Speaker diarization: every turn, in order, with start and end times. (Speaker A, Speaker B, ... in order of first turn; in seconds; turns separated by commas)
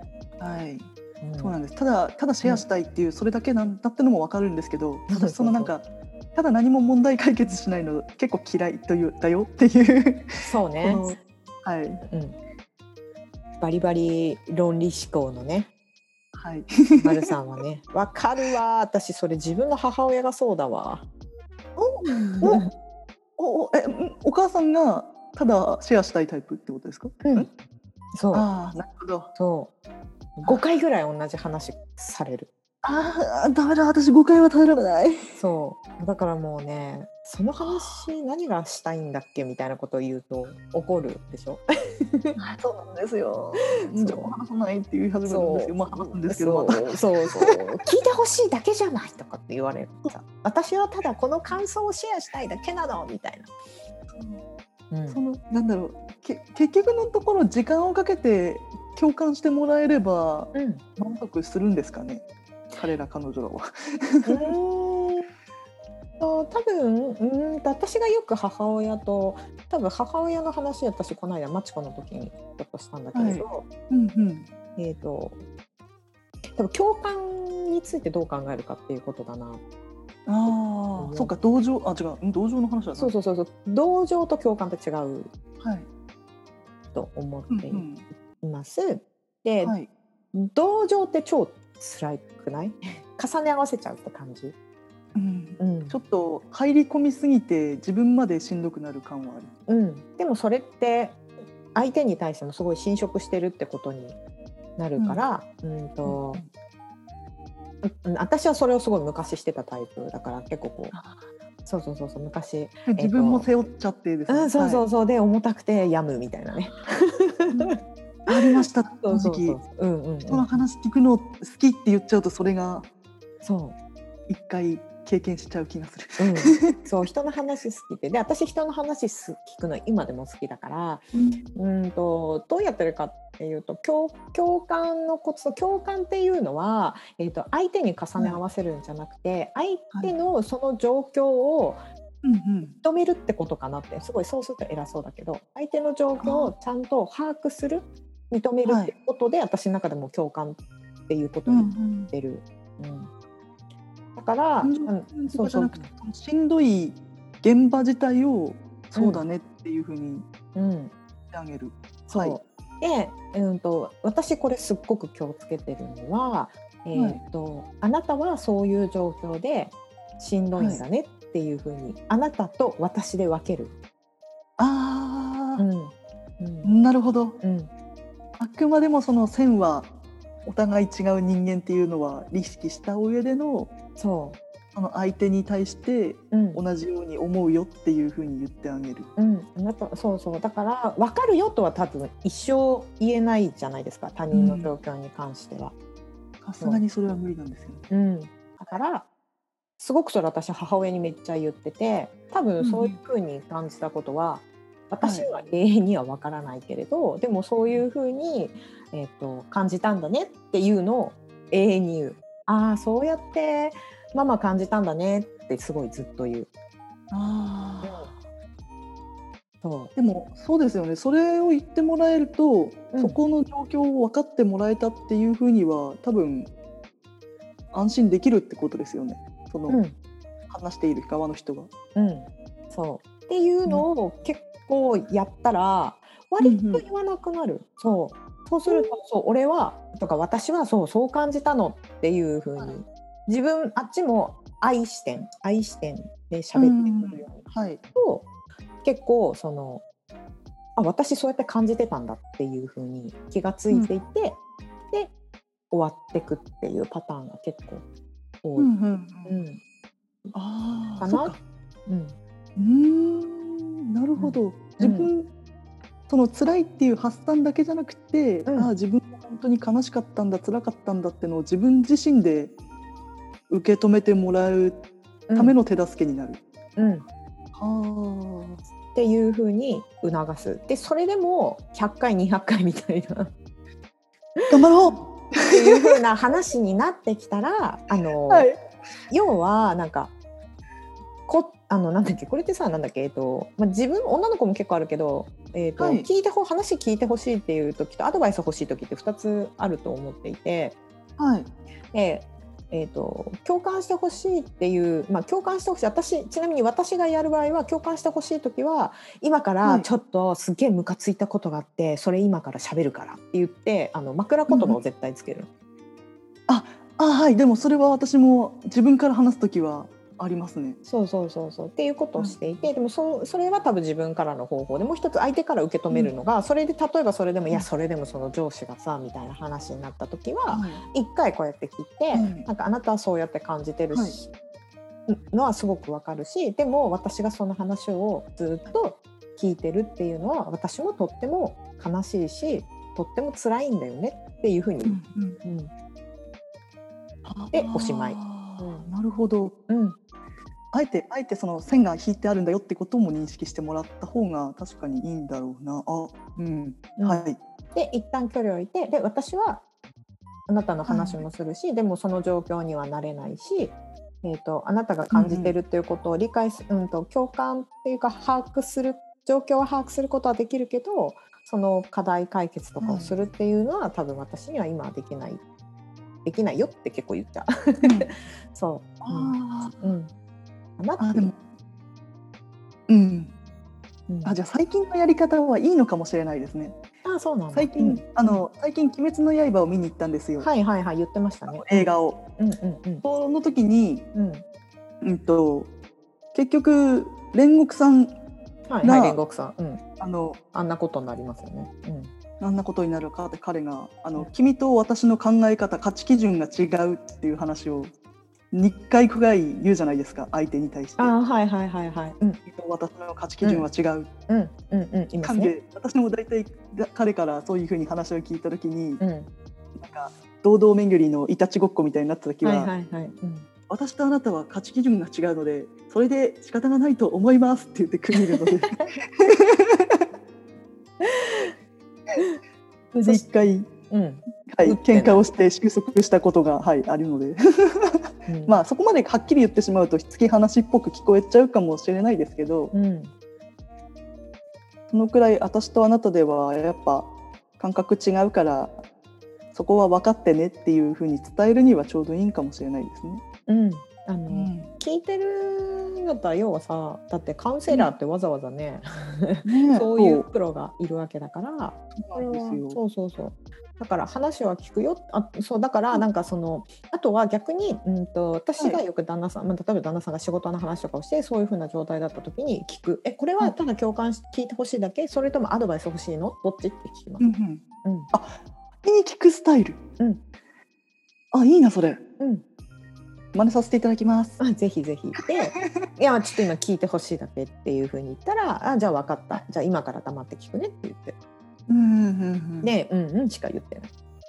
Speaker A: 0.4-0.8, Speaker B: 1.2-1.6, Speaker A: 1.4-12.0, Speaker B: 5.1-5.8, Speaker B: 10.4-11.1, Speaker B: 12.1-12.4, Speaker B: 13.6-15.7, Speaker A: 16.4-17.3, Speaker B: 17.0-21.0, Speaker A: 21.8-22.6, Speaker B: 22.4-22.7, Speaker A: 23.4-27.5, Speaker B: 27.2-27.5, Speaker B: 28.1-28.5, Speaker A: 28.3-29.3, Speaker B: 29.4-29.7, Speaker B: 30.4-32.5, Speaker A: 32.8-35.4, Speaker B: 35.3-42.3, Speaker A: 37.6-38.1, Speaker A: 42.4-47.5, Speaker B: 43.5-44.3, Speaker B: 45.2-53.5, Speaker A: 54.1-54.4, Speaker B: 54.9-55.2, Speaker A: 55.1-64.5, Speaker B: 60.5-60.8, Speaker B: 64.2-65.3, Speaker B: 66.2-73.7, Speaker A: 73.1-74.5, Speaker B: 74.8-75.4, Speaker B: 76.5-79.6, Speaker A: 80.3-83.1, Speaker B: 80.5-81.3, Speaker B: 82.9-85.3, Speaker A: 85.6-85.8, Speaker B: 86.9-89.8, Speaker A: 87.5-88.0, Speaker A: 89.6-89.9, Speaker B: 90.3-94.5, Speaker A: 95.1-99.5, Speaker B: 95.6-96.0, Speaker B: 99.7-101.2, Speaker B: 101.7-104.2, Speaker B: 104.8-106.4, Speaker A: 105.0-105.2, Speaker A: 106.0-106.5, Speaker B: 107.8-111.0, Speaker A: 110.9-111.2, Speaker B: 111.7-113.5, Speaker A: 112.9-114.9, Speaker B: 114.3-117.8, Speaker A: 118.3-119.6, Speaker B: 118.3-120.7, Speaker A: 120.3-122.8, Speaker B: 123.4-123.8, Speaker A: 124.3-126.8, Speaker B: 126.2-141.8, Speaker A: 131.1-131.4, Speaker A: 142.2-142.7, Speaker B: 142.7-153.1, Speaker A: 146.2-146.5, Speaker A: 148.6-148.9, Speaker A: 151.5-152.1, Speaker B: 154.2-155.9, Speaker A: 154.6-160.2, Speaker B: 158.9-159.2, Speaker B: 160.5-160.9, Speaker A: 161.3-162.4, Speaker B: 162.1-173.7, Speaker A: 166.9-167.2, Speaker A: 170.6-170.8, Speaker A: 174.6-175.6, Speaker B: 175.6-176.7, Speaker A: 176.6-177.4, Speaker B: 177.4-177.7, Speaker A: 178.4-179.9, Speaker A: 180.4-183.7, Speaker B: 183.9-184.4, Speaker A: 184.7-189.1, Speaker B: 186.3-186.6, Speaker B: 189.2-195.7, Speaker A: 194.3-194.7, Speaker A: 196.4-197.9, Speaker B: 197.9-199.1, Speaker B: 199.8-216.5, Speaker A: 202.6-203.0, Speaker A: 205.0-205.3, Speaker A: 217.1-218.1, Speaker B: 217.8-218.1, Speaker B: 219.6-219.9, Speaker A: 219.9-226.5, Speaker B: 222.9-223.2, Speaker A: 227.7-229.8, Speaker B: 229.7-229.9, Speaker A: 230.5-231.7, Speaker B: 231.9-248.3, Speaker A: 236.4-236.8, Speaker A: 238.7-238.9, Speaker A: 246.5-247.8, Speaker B: 248.8-249.8, Speaker B: 250.8-254.4, Speaker B: 255.7-257.8, Speaker B: 258.4-258.7, Speaker A: 258.6-259.4, Speaker B: 259.2-259.6, Speaker A: 260.3-261.4, Speaker B: 261.0-262.1, Speaker A: 262.6-265.3, Speaker B: 264.2-265.1, Speaker A: 266.1-272.5, Speaker B: 268.4-268.7, Speaker A: 273.5-274.8, Speaker B: 275.3-275.6, Speaker A: 275.4-276.4, Speaker B: 276.8-277.0, Speaker A: 277.6-278.6, Speaker B: 278.9-283.3, Speaker A: 284.5-285.9, Speaker B: 285.5-288.5, Speaker A: 288.3-288.6, Speaker B: 289.1-290.1, Speaker B: 291.3-300.7, Speaker A: 295.8-296.1, Speaker A: 301.2-301.5, Speaker B: 301.9-315.5, Speaker A: 314.5-314.8, Speaker A: 316.5-320.8, Speaker B: 320.8-334.3, Speaker A: 322.1-322.7, Speaker A: 330.5-330.8, Speaker A: 332.1-332.5, Speaker A: 333.9-334.2, Speaker B: 335.1-345.7, Speaker A: 344.8-345.4, Speaker A: 347.2-349.5, Speaker B: 347.5-348.9, Speaker B: 349.7-349.9, Speaker A: 350.7-357.4, Speaker B: 357.0-359.6, Speaker B: 360.5-375.4, Speaker A: 360.9-361.2, Speaker A: 365.1-365.6, Speaker A: 372.8-373.2, Speaker B: 376.2-380.1, Speaker A: 377.8-378.1, Speaker A: 379.0-379.8, Speaker B: 380.8-381.3, Speaker A: 381.0-381.4, Speaker A: 382.9-383.3, Speaker B: 384.1-384.4, Speaker A: 384.2-386.8, Speaker B: 387.0-388.0, Speaker A: 387.5-390.5, Speaker B: 390.4-393.0, Speaker A: 391.5-392.2, Speaker A: 393.0-394.0, Speaker B: 394.1-394.4, Speaker A: 395.0-395.7, Speaker A: 396.3-398.1, Speaker B: 398.7-399.8, Speaker A: 398.8-399.2, Speaker A: 400.0-400.4, Speaker B: 400.5-402.1, Speaker A: 402.4-407.9, Speaker A: 408.5-411.2, Speaker B: 411.0-412.4, Speaker A: 412.5-414.1, Speaker B: 413.4-413.7, Speaker B: 414.3-415.5, Speaker A: 415.2-419.0, Speaker B: 419.0-419.3, Speaker A: 419.8-422.7, Speaker B: 422.4-423.4, Speaker A: 423.7-430.0, Speaker B: 428.1-428.9, Speaker B: 431.0-431.5, Speaker A: 432.9-433.6, Speaker B: 433.0-435.2, Speaker A: 434.5-442.7, Speaker B: 438.3-438.6, Speaker B: 442.7-443.1, Speaker A: 444.9-448.8, Speaker A: 449.5-453.2, Speaker B: 453.5-477.3, Speaker A: 454.3-454.7, Speaker A: 459.4-460.2, Speaker A: 461.9-462.8, Speaker A: 477.2-479.8, Speaker B: 477.8-478.1, Speaker A: 481.3-482.0, Speaker A: 483.3-484.4, Speaker B: 484.4-491.1, Speaker A: 485.5-485.9, Speaker A: 491.7-492.7, Speaker B: 492.6-493.9